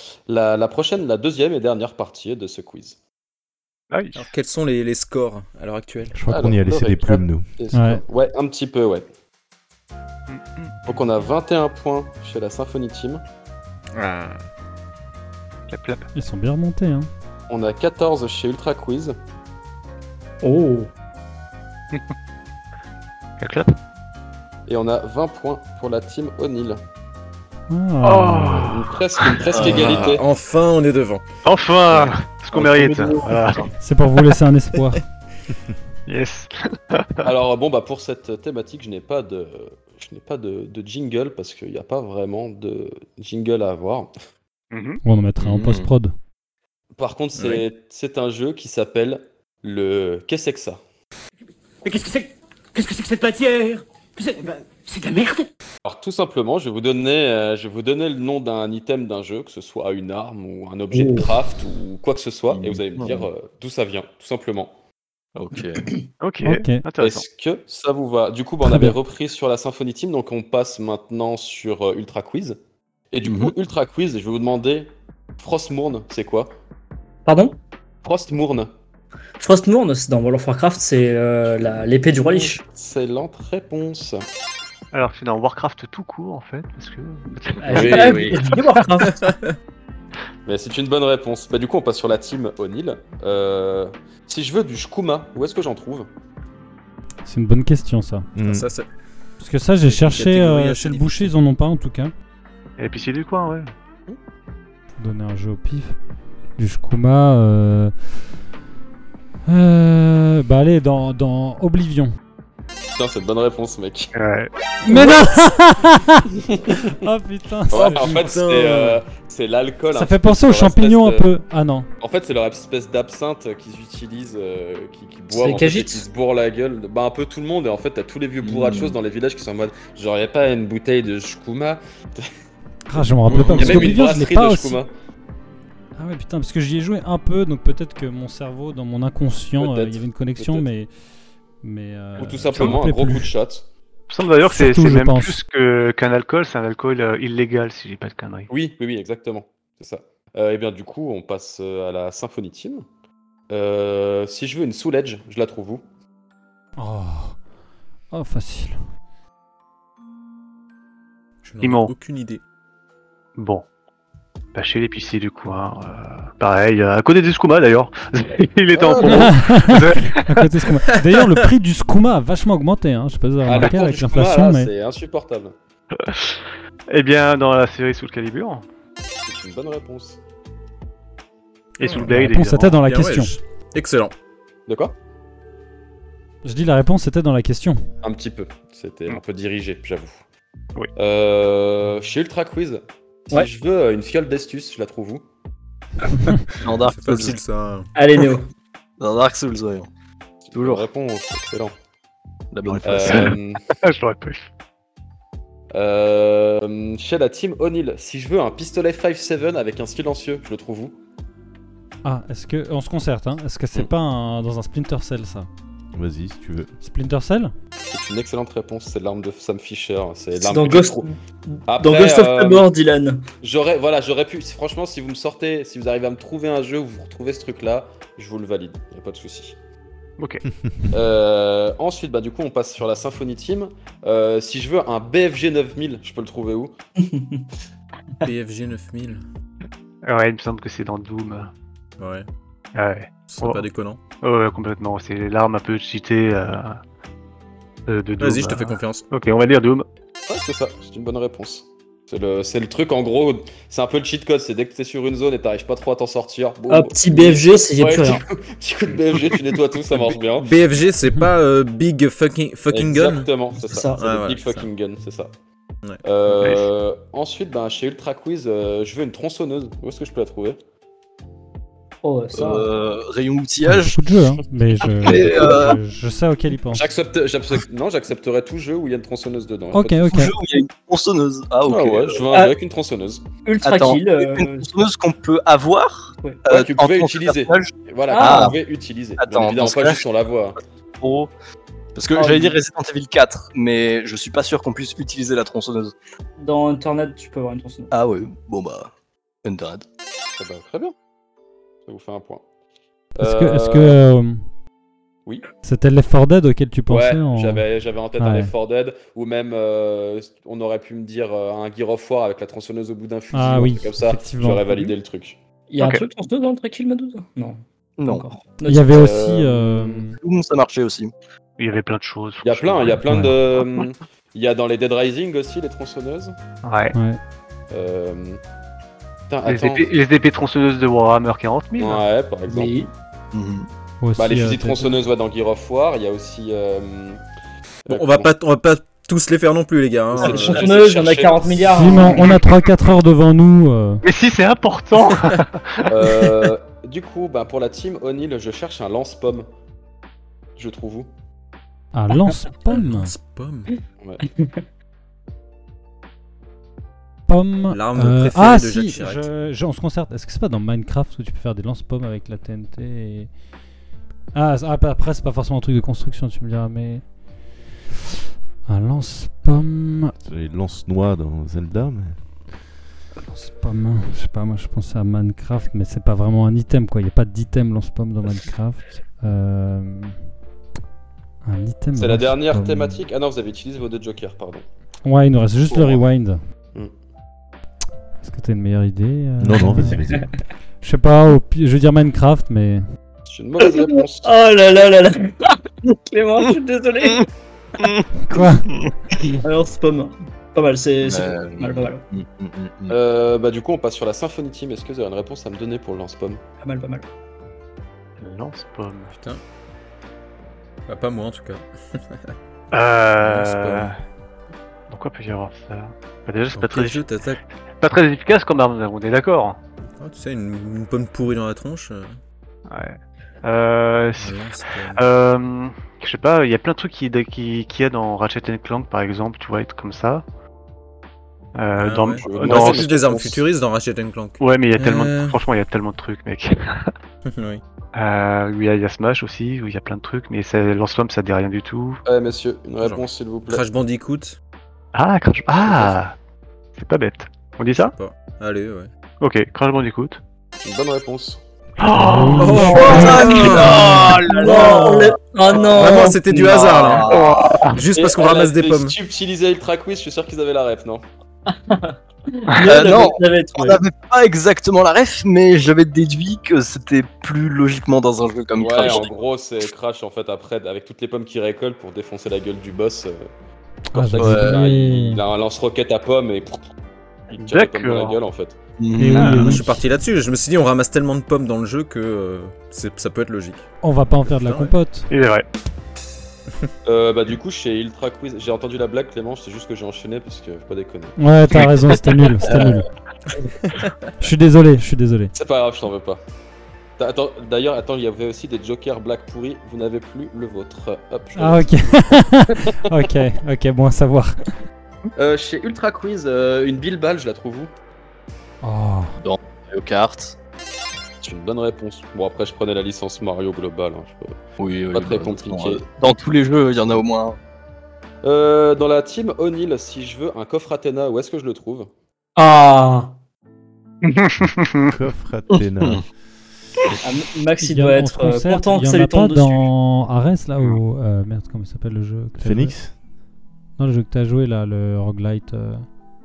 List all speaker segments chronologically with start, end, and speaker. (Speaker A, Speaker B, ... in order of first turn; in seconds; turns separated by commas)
Speaker A: 0.3-3.0, Speaker B: 3.9-4.3, Speaker C: 4.1-6.2, Speaker D: 6.2-7.5, Speaker A: 6.3-9.1, Speaker E: 7.7-8.0, Speaker B: 10.3-10.9, Speaker A: 10.9-13.2, Speaker C: 13.9-14.4, Speaker B: 15.7-16.1, Speaker E: 16.1-17.1, Speaker A: 17.5-19.2, Speaker F: 20.4-20.9, Speaker B: 23.4-23.7, Speaker A: 24.7-26.8, Speaker E: 27.7-28.7, Speaker B: 28.0-29.5, Speaker A: 28.6-30.2, Speaker G: 29.6-30.1, Speaker C: 29.6-31.2, Speaker B: 31.4-33.7, Speaker C: 32.8-33.2, Speaker E: 33.8-35.0, Speaker B: 36.1-37.3, Speaker A: 37.2-44.1, Speaker B: 44.7-45.0, Speaker E: 45.0-46.1, Speaker G: 45.4-45.9, Speaker A: 47.0-50.8, Speaker C: 47.4-47.6, Speaker H: 51.8-55.5, Speaker A: 55.9-64.8, Speaker F: 60.9-61.3, Speaker G: 62.5-63.3, Speaker G: 65.4-65.8, Speaker B: 66.2-67.2, Speaker E: 66.4-66.8, Speaker A: 67.0-72.6, Speaker E: 68.6-69.0, Speaker A: 73.1-76.5, Speaker G: 73.2-73.5, Speaker F: 77.3-77.6, Speaker A: 78.0-78.7, Speaker F: 79.4-82.6, Speaker A: 82.3-84.3, Speaker B: 84.9-88.4, Speaker F: 87.6-89.2, Speaker A: 87.7-88.6, Speaker C: 89.0-89.6, Speaker A: 90.5-96.1, Speaker E: 97.2-98.3, Speaker D: 98.3-98.7, Speaker C: 98.4-98.9, Speaker E: 99.4-102.1, Speaker C: 99.8-101.3, Speaker B: 102.8-103.7, Speaker E: 105.0-106.0, Speaker E: 106.6-107.9, Speaker E: 109.5-112.2, Speaker A: 113.0-114.1, Speaker B: 114.2-115.0, Speaker E: 114.8-116.3, Speaker A: 116.5-116.8, Speaker E: 116.9-118.2, Speaker A: 117.7-121.3, Speaker C: 117.7-119.0, Speaker E: 119.9-121.9, Speaker A: 122.0-132.3, Speaker F: 125.3-126.1, Speaker G: 128.4-129.0, Speaker E: 132.9-134.8, Speaker A: 132.9-134.9, Speaker G: 133.3-134.0, Speaker E: 136.0-140.9, Speaker A: 139.6-140.7, Speaker E: 141.6-143.3, Speaker A: 142.2-143.7, Speaker B: 144.1-148.5, Speaker E: 144.5-145.4, Speaker A: 148.5-152.8, Speaker A: 153.5-155.8, Speaker E: 156.8-157.4, Speaker E: 158.1-158.8, Speaker C: 161.4-162.4, Speaker B: 161.6-161.9, Speaker B: 163.4-163.7, Speaker B: 164.6-170.5, Speaker A: 168.7-169.4, Speaker E: 169.1-174.7, Speaker A: 173.5-175.6, Speaker B: 176.1-178.7, Speaker A: 179.3-180.2, Speaker B: 181.8-182.8, Speaker C: 181.8-182.2, Speaker E: 182.1-183.4, Speaker C: 182.8-184.1, Speaker A: 184.7-184.9, Speaker E: 186.4-187.8, Speaker A: 188.0-190.2, Speaker A: 191.0-195.2, Speaker G: 196.6-197.4, Speaker C: 196.8-197.9, Speaker F: 197.9-198.5, Speaker G: 199.0-199.9, Speaker A: 200.4-201.8, Speaker G: 200.6-200.9, Speaker G: 202.5-203.3, Speaker A: 202.8-203.6, Speaker B: 203.0-204.5, Speaker A: 205.7-210.9, Speaker E: 212.0-215.5, Speaker D: 215.9-216.7, Speaker E: 216.8-217.5, Speaker A: 217.9-221.1, Speaker F: 220.4-223.2, Speaker A: 221.7-222.7, Speaker A: 223.4-229.6, Speaker B: 230.2-230.4, Speaker A: 230.9-236.7, Speaker F: 237.0-237.5, Speaker C: 238.2-239.2, Speaker B: 240.1-241.5, Speaker C: 242.0-242.3, Speaker B: 242.7-243.7, Speaker C: 243.2-244.0, Speaker B: 244.2-246.8, Speaker B: 247.9-249.8, Speaker C: 248.2-249.1, Speaker A: 250.3-260.5, Speaker F: 256.7-258.2, Speaker C: 260.4-263.3, Speaker A: 262.7-265.3, Speaker F: 263.6-264.0, Speaker C: 264.0-264.7, Speaker A: 266.0-270.6, Speaker B: 266.4-266.7, Speaker F: 272.0-272.7, Speaker G: 272.3-274.0, Speaker E: 273.6-276.8, Speaker G: 274.8-275.8, Speaker A: 276.7-280.2, Speaker E: 279.7-280.3, Speaker G: 280.1-282.3, Speaker A: 281.7-283.2, Speaker F: 283.4-284.7, Speaker G: 283.6-288.6, Speaker A: 286.5-290.6, Speaker F: 288.1-288.5, Speaker G: 289.2-290.0, Speaker G: 291.0-291.3, Speaker G: 291.9-295.9, Speaker F: 292.1-292.6, Speaker F: 296.4-297.9, Speaker G: 297.9-298.9, Speaker G: 299.4-299.9, Speaker A: 300.4-300.9, Speaker A: 301.9-302.4, Speaker A: 303.2-304.0, Speaker E: 303.2-304.5, Speaker E: 305.6-307.6, Speaker A: 306.9-315.4, Speaker E: 308.2-308.5, Speaker E: 313.3-314.9, Speaker F: 315.7-319.2, Speaker B: 315.8-316.1, Speaker G: 318.0-318.4, Speaker E: 318.6-320.2, Speaker A: 318.9-319.9, Speaker G: 320.2-321.1, Speaker B: 321.6-323.2, Speaker A: 322.4-326.4, Speaker E: 323.1-323.4, Speaker B: 326.6-326.9, Speaker E: 326.9-327.2, Speaker A: 327.7-328.4, Speaker A: 329.3-330.0, Speaker B: 329.5-332.0, Speaker A: 331.8-332.8, Speaker F: 332.5-332.9, Speaker G: 333.3-333.7, Speaker E: 334.0-335.0, Speaker A: 334.2-337.2, Speaker A: 337.9-338.3, Speaker C: 337.9-341.9, Speaker A: 340.1-341.3, Speaker F: 340.2-342.2, Speaker E: 341.7-344.0, Speaker B: 344.0-346.0, Speaker A: 345.9-349.5, Speaker A: 350.6-351.1, Speaker E: 351.9-353.1, Speaker C: 352.7-353.7, Speaker F: 354.2-354.5, Speaker E: 357.3-363.3, Speaker C: 357.7-359.3, Speaker E: 364.3-367.1, Speaker E: 368.7-370.1, Speaker D: 370.2-372.5, Speaker E: 373.3-380.2, Speaker E: 381.4-383.0, Speaker A: 382.0-384.7, Speaker E: 385.1-386.4, Speaker E: 388.2-390.1, Speaker D: 389.4-390.3, Speaker E: 390.8-392.8, Speaker A: 393.3-394.3, Speaker F: 393.7-397.3, Speaker G: 397.8-398.0, Speaker E: 398.3-398.7, Speaker G: 398.7-399.4, Speaker F: 399.3-402.0, Speaker G: 401.0-403.0, Speaker A: 402.9-406.4, Speaker F: 406.6-407.1, Speaker B: 408.2-409.1, Speaker C: 409.1-409.4, Speaker C: 410.9-412.3, Speaker B: 412.7-413.9, Speaker C: 413.2-413.9, Speaker B: 414.9-417.1, Speaker C: 416.5-417.4, Speaker B: 417.8-419.6, Speaker C: 420.0-422.2, Speaker B: 422.7-430.2, Speaker C: 424.2-425.0, Speaker B: 431.6-432.9, Speaker C: 431.8-435.4, Speaker A: 432.2-433.4, Speaker B: 434.4-436.9, Speaker C: 437.2-437.6, Speaker B: 437.9-442.0, Speaker A: 442.1-443.6, Speaker C: 442.8-444.4, Speaker B: 444.9-446.2, Speaker C: 445.6-445.9, Speaker B: 446.8-448.0, Speaker C: 447.8-448.9, Speaker B: 449.2-450.2, Speaker A: 450.6-451.4, Speaker B: 451.8-454.9, Speaker E: 452.0-453.1, Speaker C: 452.4-454.1, Speaker F: 452.8-453.4, Speaker G: 452.8-457.3, Speaker F: 454.3-456.6, Speaker C: 455.7-457.2, Speaker B: 457.1-457.9, Speaker C: 457.7-459.0, Speaker A: 457.9-461.0, Speaker F: 461.5-463.8, Speaker G: 462.7-469.1, Speaker A: 468.6-473.3, Speaker E: 473.9-475.2, Speaker A: 473.9-476.6, Speaker G: 474.2-474.5, Speaker A: 477.3-478.6, Speaker B: 477.4-478.2, Speaker G: 478.8-479.6, Speaker E: 479.0-479.7, Speaker B: 479.1-479.5, Speaker C: 479.4-483.7, Speaker E: 483.8-485.1, Speaker C: 484.2-484.7, Speaker B: 485.1-485.4, Speaker A: 486.9-492.7, Speaker E: 491.2-492.9, Speaker C: 493.6-494.1, Speaker E: 494.2-495.3, Speaker A: 495.3-496.2, Speaker A: 497.0-502.7, Speaker E: 501.4-504.4, Speaker A: 505.2-507.7, Speaker E: 508.6-509.2, Speaker G: 509.2-510.4, Speaker A: 511.2-514.4, Speaker G: 514.6-517.4, Speaker A: 514.9-515.8, Speaker A: 518.2-521.9, Speaker F: 522.4-523.2, Speaker B: 524.0-524.9, Speaker D: 524.9-526.1, Speaker G: 525.5-526.0, Speaker F: 527.0-529.7, Speaker E: 527.6-533.0, Speaker D: 532.4-533.0, Speaker E: 533.8-535.9